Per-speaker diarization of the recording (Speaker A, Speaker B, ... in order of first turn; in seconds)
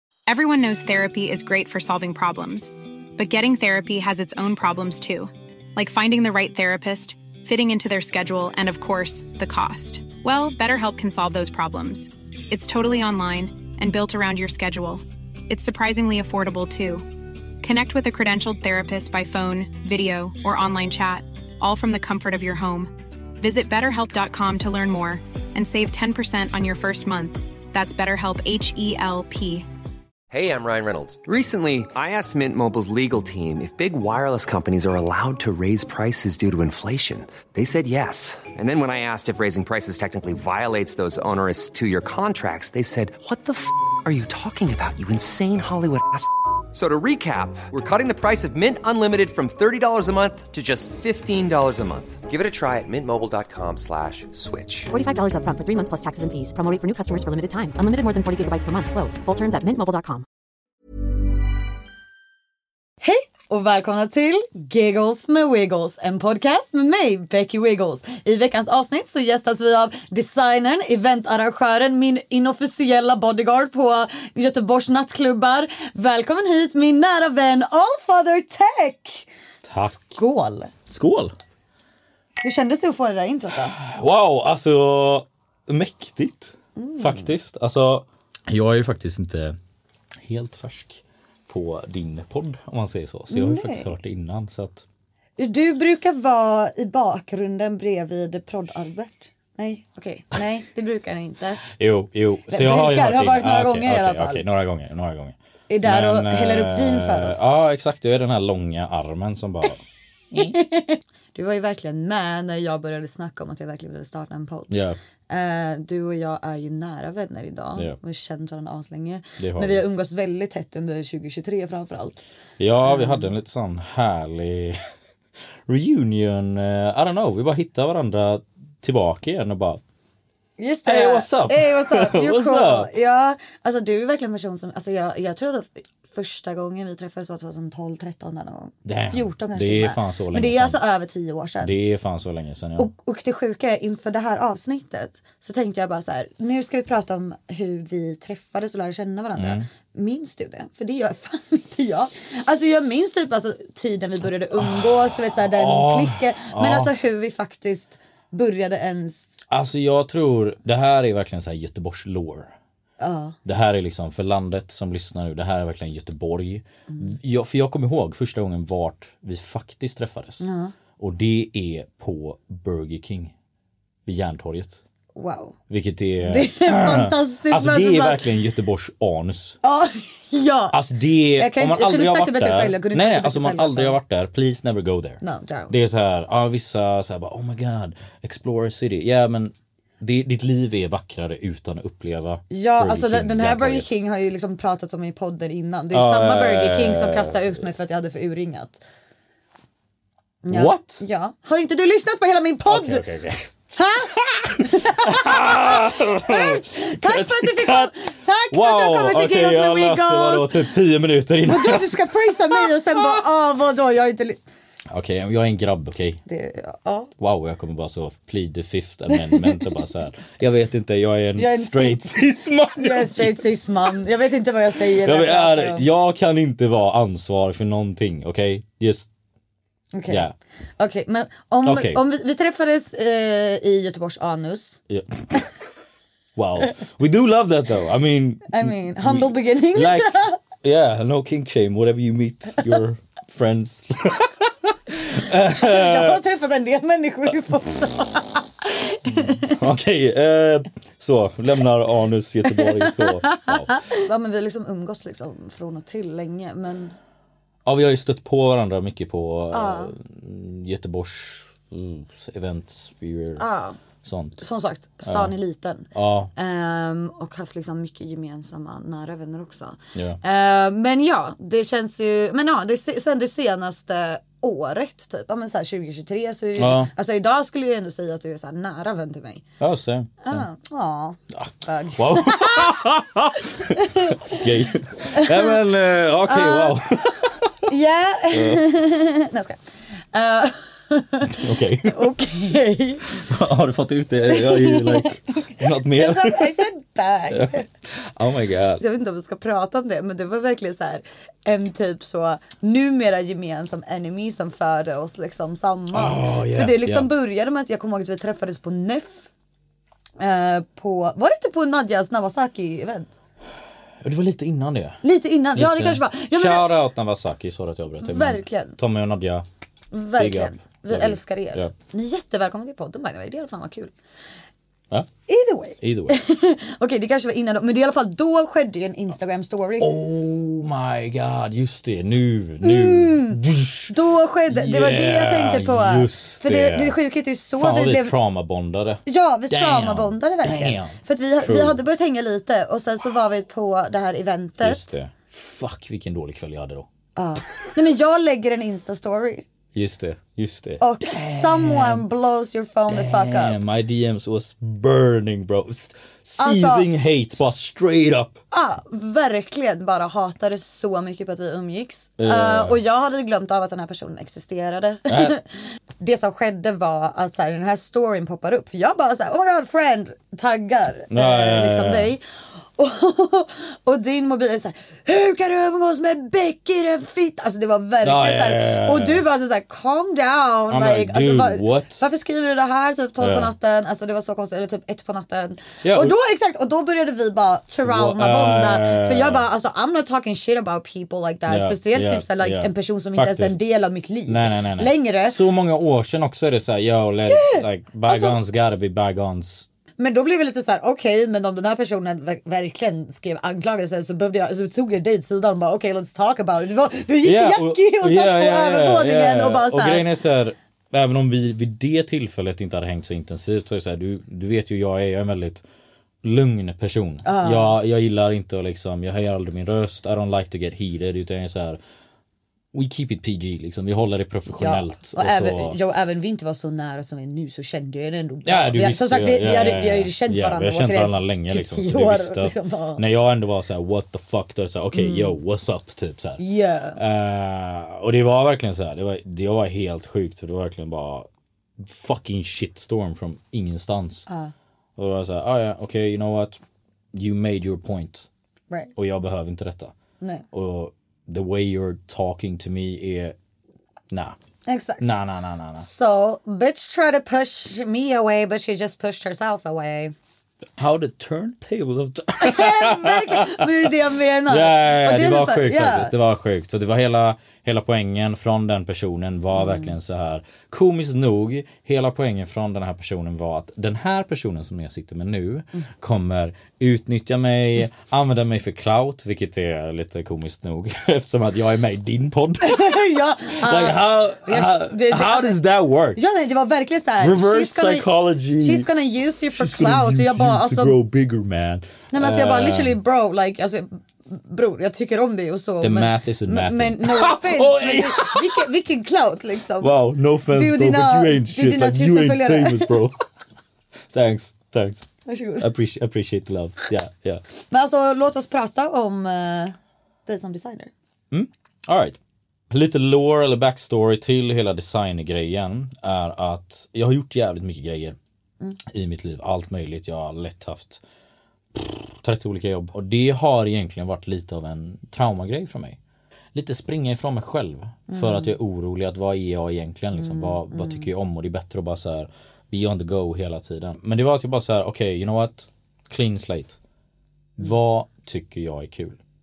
Speaker A: 0.3-17.1, 17.6-29.6
Speaker B: 30.3-54.9
Speaker C: 54.9-60.2
Speaker D: 63.0-79.3, 80.0-80.7, 82.4-83.8, 86.8-87.3, 93.3-93.9, 95.4-101.6, 102.5-104.4, 105.7-107.4, 110.3-114.7, 115.3-122.2, 122.9-123.3, 130.6-141.7, 142.8-159.2, 163.0-163.3, 166.9-167.2, 170.4-170.7, 175.1-175.5, 176.2-178.2, 179.6-180.8, 181.4-184.0, 185.2-185.7, 192.5-198.8, 200.4-203.0, 203.7-210.5, 211.4-214.4, 216.3-217.1, 219.1-219.6, 221.4-222.1, 222.8-225.8, 229.9-230.3, 230.8-234.8, 238.5-240.4, 245.6-249.5, 252.6-256.9, 259.5-259.9, 263.4-263.8, 264.4-279.4, 280.2-282.8, 283.6-284.4, 285.1-285.6, 286.2-286.8, 287.7-289.6, 290.1-293.2, 294.3-297.6, 298.8-309.3, 310.2-313.1, 315.0-316.7, 318.0-318.8, 319.9-323.9, 325.3-329.9, 332.6-338.1, 339.1-344.9, 347.1-349.4, 350.8-353.6, 356.4-356.9, 358.5-365.5, 366.0-372.2, 372.8-395.4, 397.3-398.4, 400.0-410.1, 417.2-417.8, 424.5-433.0, 434.9-435.4, 436.4-437.0, 444.3-444.5, 454.6-455.0, 455.8-460.1, 462.4-466.1, 469.6-469.9, 482.6-485.6, 486.1-491.0, 492.1-499.9, 500.5-503.0, 505.3-505.7, 507.7-509.7, 510.2-510.9, 528.1-528.5, 530.1-531.1
Speaker E: 79.6-80.2, 80.9-81.3, 83.7-89.6, 90.2-94.8, 101.6-109.8, 110.3-110.6, 114.7-115.0, 119.4-119.8, 122.6-124.8, 125.7-129.8, 130.8-132.9, 138.8-140.8, 141.6-142.9, 149.3-149.7, 154.5-156.9, 159.5-162.5, 163.4-173.3, 174.1-174.8, 175.7-179.6, 180.7-193.9, 195.9-197.6, 200.5-201.0, 202.7-203.5, 204.1-207.9, 208.5-213.2, 214.9-216.2, 217.2-223.5, 224.9-229.1, 230.1-230.3, 231.6-232.0, 234.9-235.4, 236.3-246.2, 249.1-253.8, 257.6-263.4, 264.0-264.5, 265.0-265.3, 265.9-266.3, 269.9-270.2, 276.6-276.9, 279.6-280.4, 281.3-287.6, 288.3-288.6, 291.2-292.1, 293.1-296.7, 297.3-298.8, 305.9-307.1, 314.0-315.0, 315.5-319.4, 320.2-321.7, 325.8-326.2, 329.8-337.0, 337.6-341.8, 344.6-346.9, 349.7-352.1, 352.9-358.4, 362.2-362.8, 365.1-365.4, 371.1-372.1, 378.0-379.2, 380.7-382.0, 383.2-383.5, 385.8-386.1, 387.8-389.4, 391.5-393.6, 394.3-399.7, 407.2-415.6, 416.2-421.8, 422.7-425.8, 428.4-436.4, 436.9-444.3, 445.0-446.6, 447.1-448.3, 448.9-449.9, 450.5-453.4, 454.1-454.4, 455.0-455.9, 460.8-463.9, 464.5-486.2, 487.2-488.9, 489.5-493.0, 495.8-498.6, 499.8-503.1, 504.1-505.1, 505.6-507.4, 511.3-512.2, 512.7-518.2, 518.8-521.0, 521.7-526.0, 526.5-536.8, 537.6-539.2